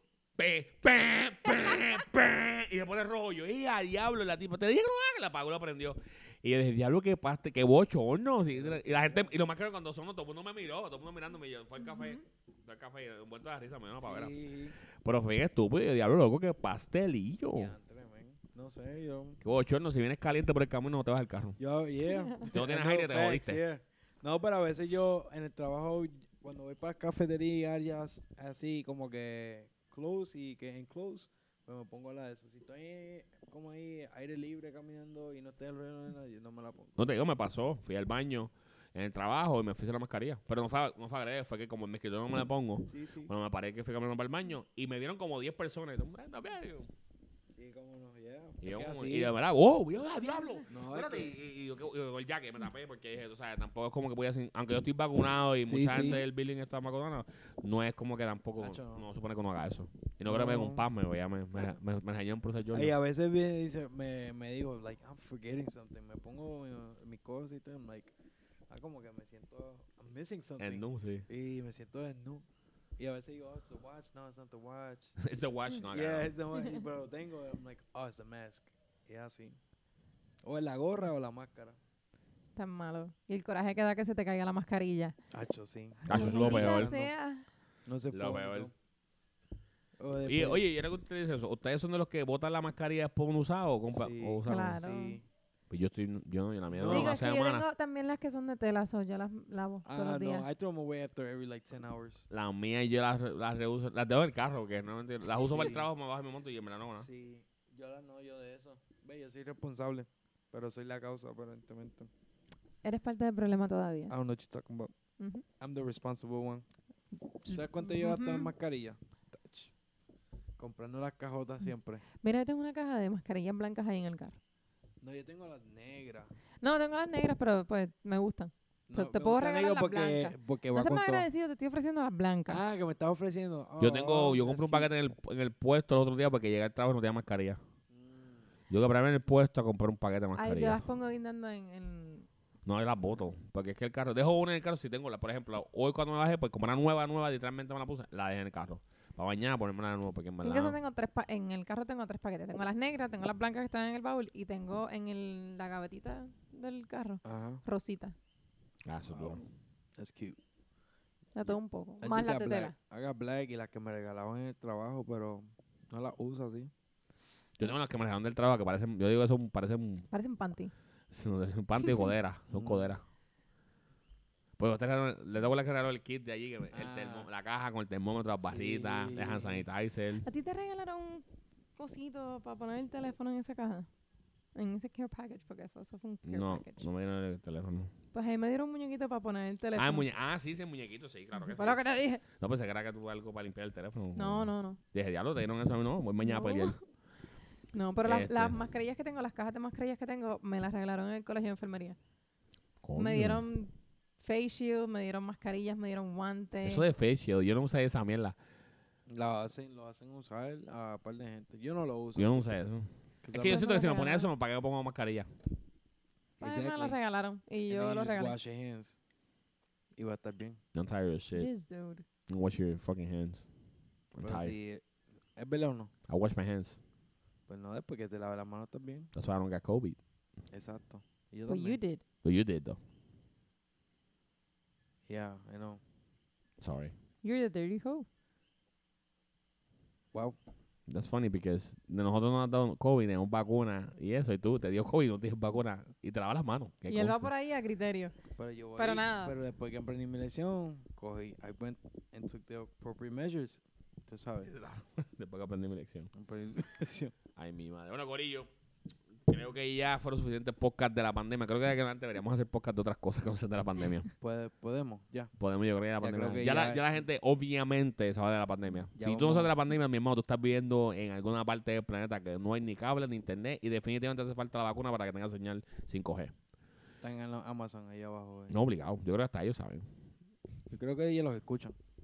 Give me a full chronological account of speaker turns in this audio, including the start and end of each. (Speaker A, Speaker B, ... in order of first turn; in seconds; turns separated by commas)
Speaker A: 0.4-14.3, Speaker B: 8.5-9.3, Speaker C: 11.8-12.2, Speaker B: 14.0-14.8, Speaker A: 15.0-17.7, Speaker B: 17.5-19.4, Speaker A: 19.4-21.6, Speaker B: 21.6-37.0, Speaker C: 22.1-22.4, Speaker A: 22.5-23.6, Speaker A: 37.0-46.9, Speaker B: 42.9-43.3, Speaker B: 47.6-49.3, Speaker A: 48.6-62.9, Speaker B: 50.7-51.4, Speaker B: 55.7-56.2, Speaker B: 58.6-59.0, Speaker B: 60.3-60.8, Speaker B: 62.7-68.1, Speaker B: 68.7-72.5, Speaker A: 70.6-71.3, Speaker B: 73.0-75.1, Speaker A: 75.2-76.3, Speaker B: 75.8-79.6, Speaker C: 76.6-76.8, Speaker B: 80.4-81.8, Speaker C: 82.6-85.2, Speaker B: 85.3-87.1, Speaker C: 86.0-87.5, Speaker A: 86.1-87.0, Speaker B: 87.9-88.7, Speaker A: 88.1-88.7, Speaker B: 90.0-90.6, Speaker A: 90.2-94.8, Speaker B: 93.9-95.3, Speaker C: 94.5-95.2, Speaker A: 95.7-97.6, Speaker B: 96.7-97.1, Speaker C: 96.9-100.5, Speaker B: 99.8-102.3, Speaker A: 102.3-107.1, Speaker B: 105.4-105.9, Speaker B: 107.0-112.1, Speaker C: 112.8-114.2, Speaker B: 114.1-114.9, Speaker C: 115.2-115.5, Speaker B: 115.6-116.7, Speaker C: 117.4-118.5, Speaker B: 117.5-119.7, Speaker B: 120.6-122.0, Speaker C: 122.2-124.4, Speaker B: 125.0-126.3, Speaker C: 126.6-132.6, Speaker B: 128.9-131.3, Speaker B: 132.5-134.9, Speaker A: 133.8-137.6, Speaker B: 137.9-138.5, Speaker A: 138.7-140.8, Speaker C: 140.4-142.3, Speaker A: 142.7-150.8, Speaker C: 150.4-158.2, Speaker B: 157.2-157.6, Speaker A: 158.9-159.4, Speaker B: 159.1-159.4, Speaker B: 160.0-160.4, Speaker C: 161.3-162.7, Speaker B: 162.0-166.7, Speaker A: 167.6-170.1, Speaker C: 170.1-170.7, Speaker A: 171.1-173.0, Speaker C: 171.8-172.1, Speaker B: 172.5-172.9, Speaker A: 174.6-180.3, Speaker B: 176.7-177.3, Speaker B: 178.4-179.7, Speaker C: 180.2-181.2, Speaker C: 181.8-183.9, Speaker C: 184.6-186.9, Speaker A: 186.3-187.9, Speaker C: 188.1-190.1, Speaker A: 189.8-196.8, Speaker C: 191.3-192.2, Speaker C: 194.2-194.8, Speaker C: 196.2-196.8, Speaker C: 197.7-202.0, Speaker A: 198.1-198.6, Speaker A: 202.8-203.4, Speaker C: 203.0-206.8, Speaker A: 206.6-208.4, Speaker B: 209.1-212.5, Speaker A: 212.2-215.3, Speaker B: 213.2-213.7, Speaker C: 213.3-214.3, Speaker B: 216.4-217.0, Speaker C: 216.4-218.4, Speaker B: 217.7-219.0, Speaker B: 220.0-220.6, Speaker A: 220.7-221.5, Speaker C: 221.3-222.1, Speaker A: 222.3-223.4, Speaker A: 224.1-224.6, Speaker B: 224.2-224.8, Speaker B: 225.4-225.9, Speaker A: 226.1-226.8, Speaker B: 227.5-229.1, Speaker A: 229.1-230.0, Speaker B: 230.5-231.8, Speaker C: 231.5-232.0, Speaker A: 232.2-232.8, Speaker B: 235.1-235.8, Speaker A: 236.6-236.9, Speaker C: 237.2-238.1, Speaker A: 240.9-247.3, Speaker C: 246.9-248.1, Speaker B: 248.4-254.5, Speaker C: 248.8-249.4, Speaker A: 254.4-256.1, Speaker B: 256.1-257.1, Speaker A: 257.4-258.5, Speaker A: 259.3-264.1, Speaker B: 264.2-265.3, Speaker A: 265.4-276.3, Speaker B: 266.0-266.8, Speaker B: 269.0-269.5, Speaker B: 277.0-278.6, Speaker A: 278.5-279.9, Speaker B: 280.7-281.8